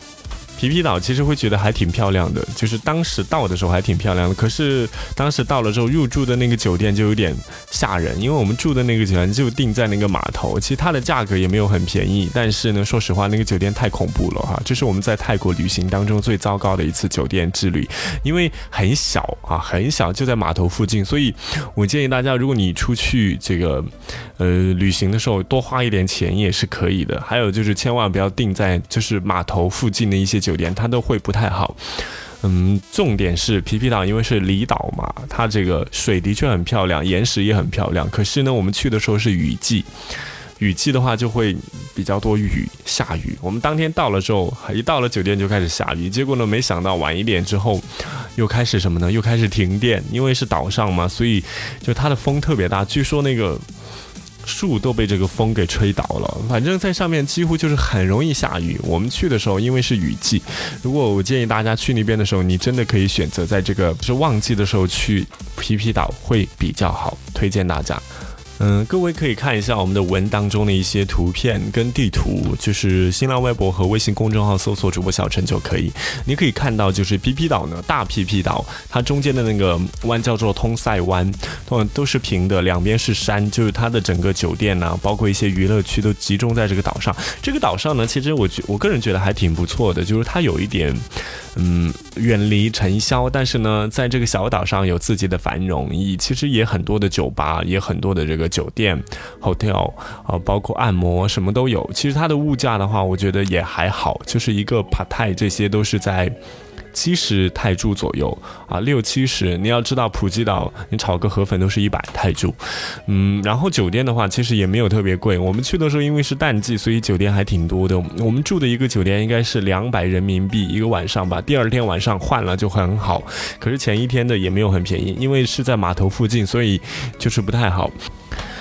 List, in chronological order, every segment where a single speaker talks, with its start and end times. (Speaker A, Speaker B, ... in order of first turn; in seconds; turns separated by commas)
Speaker A: 0.6-31.8, Speaker A: 32.4-39.9, Speaker A: 40.6-53.6, Speaker A: 54.4-68.0, Speaker A: 68.6-106.3, Speaker A: 106.9-128.0